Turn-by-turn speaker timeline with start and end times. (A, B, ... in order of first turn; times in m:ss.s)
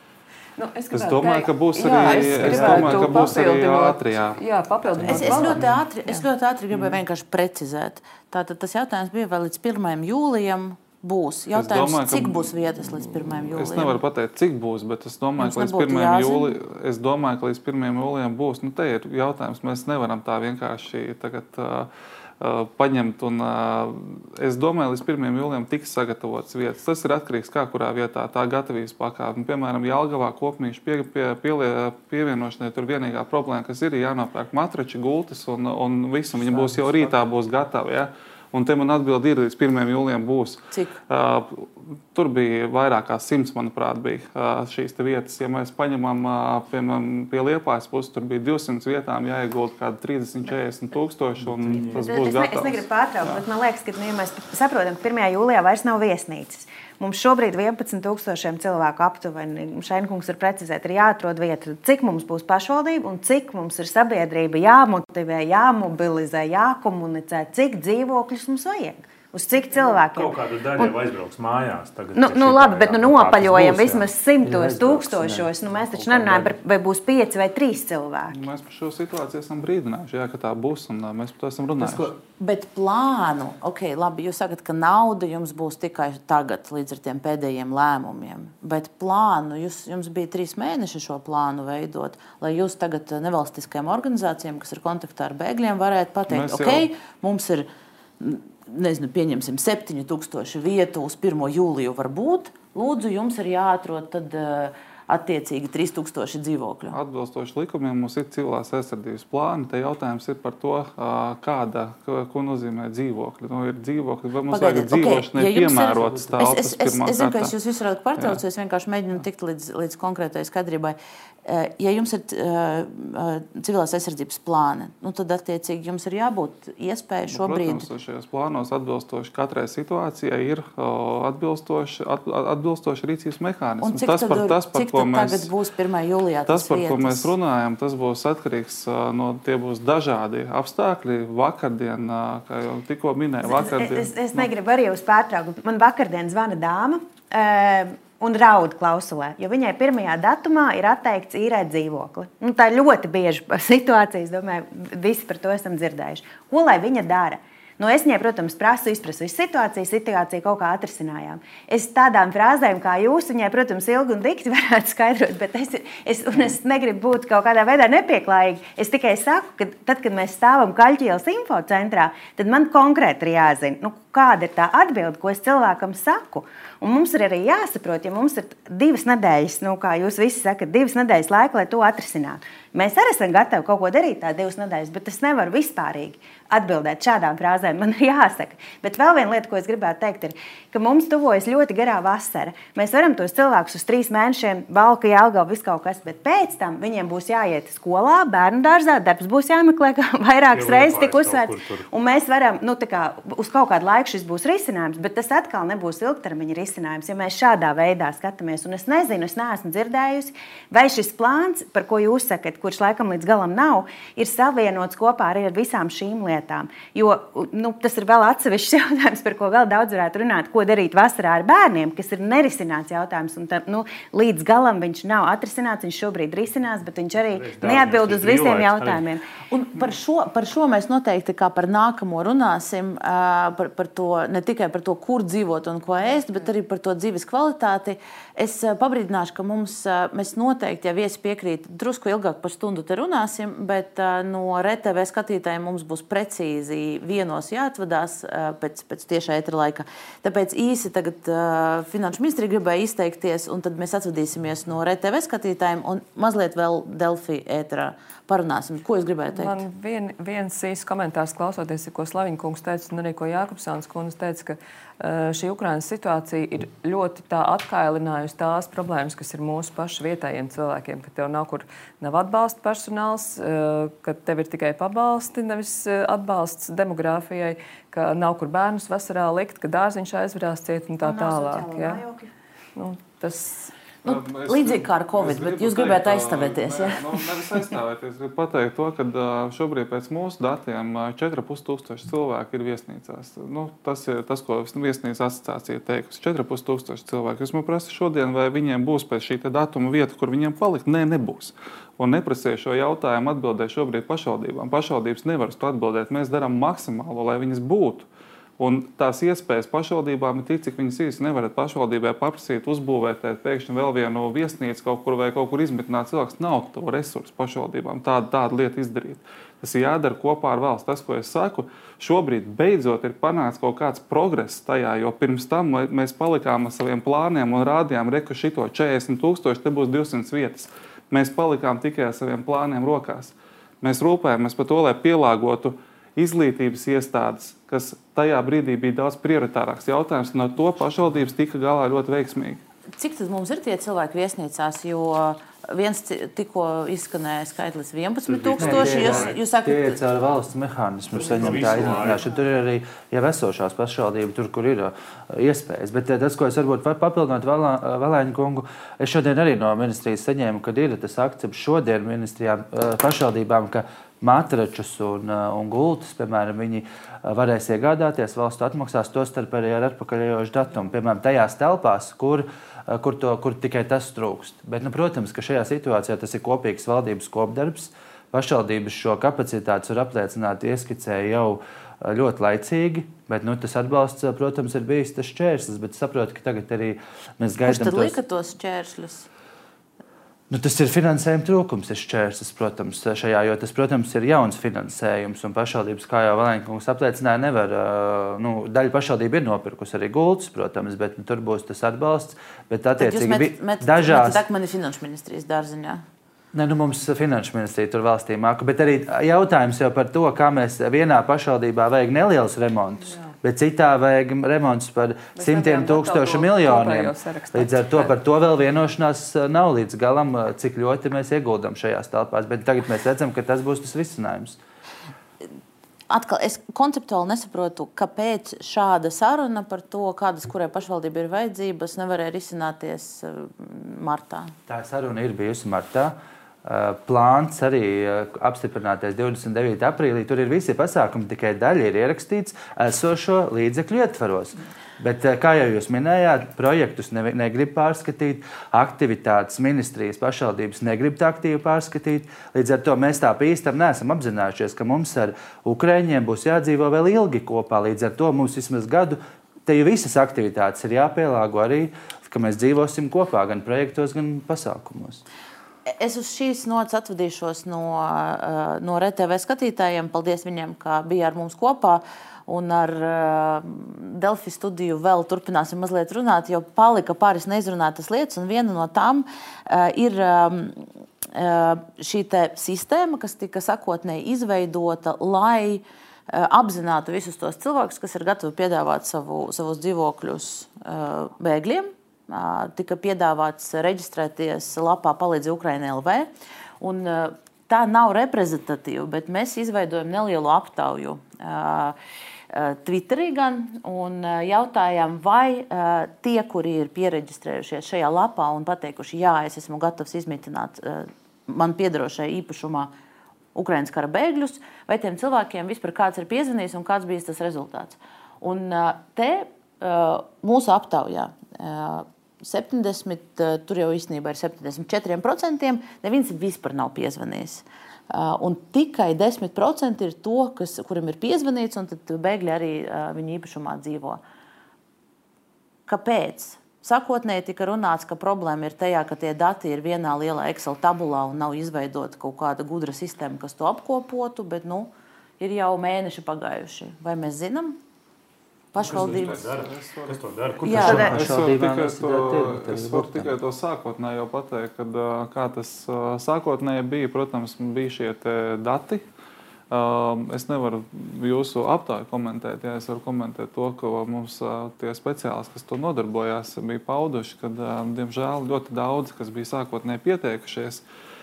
0:00.6-0:06.1 A
0:00.9-0:04.4 B
0:02.4-0:02.9 C
0:05.1-0:14.0 D
0:05.2-0:05.6 E
0:11.5-0:53.4 B
0:15.4-0:16.6 D
0:36.3-0:37.1 C
0:40.7-0:41.0 D
0:51.4-0:52.1 E
0:51.9-1:10.9 F
1:09.7-1:14.1 E
1:12.1-1:18.4 F
1:14.4-1:16.6 C
1:18.3-1:22.1 B
1:21.8-1:22.1 C
1:22.4-1:37.7 D
1:36.3-1:36.9 B
1:38.2-1:47.0 D
1:46.9-1:57.5 B
1:54.5-2:07.9 D
1:56.0-1:56.6 C
2:07.3-2:15.5 B
2:13.8-2:17.3 D
2:16.4-2:24.5 B
2:23.4-3:49.2 F
3:20.5-3:21.9 E
3:47.2-3:49.0 E
3:49.5-4:19.6 D
4:19.3-4:42.0 A
4:41.0-4:42.3 F
4:42.8-4:43.7 A
4:44.0-5:08.1 B
4:44.0-4:47.0 D
5:08.6-5:42.6 B
5:43.0-5:50.0 D
5:48.3-5:49.3 E
5:48.6-6:28.2 C
5:51.2-5:52.2 E
5:51.3-5:52.1 B
6:27.6-6:29.3 D
6:30.5-6:44.4 C
6:43.0-6:46.0 D
6:46.5-7:04.6 C
6:55.4-6:58.1 A
7:06.1-7:14.5 D
7:14.7-7:45.2 C
7:45.8-8:16.3 D
8:16.8-8:22.0 D
8:22.5-8:32.9 D
8:33.5-8:54.2 D
8:55.9-9:07.8 D
9:08.7-9:09.4 D
9:08.8-9:11.4 E
9:08.8-9:19.0 B
9:10.6-9:11.1 D
9:10.7-9:13.3 C
9:19.7-9:30.8 B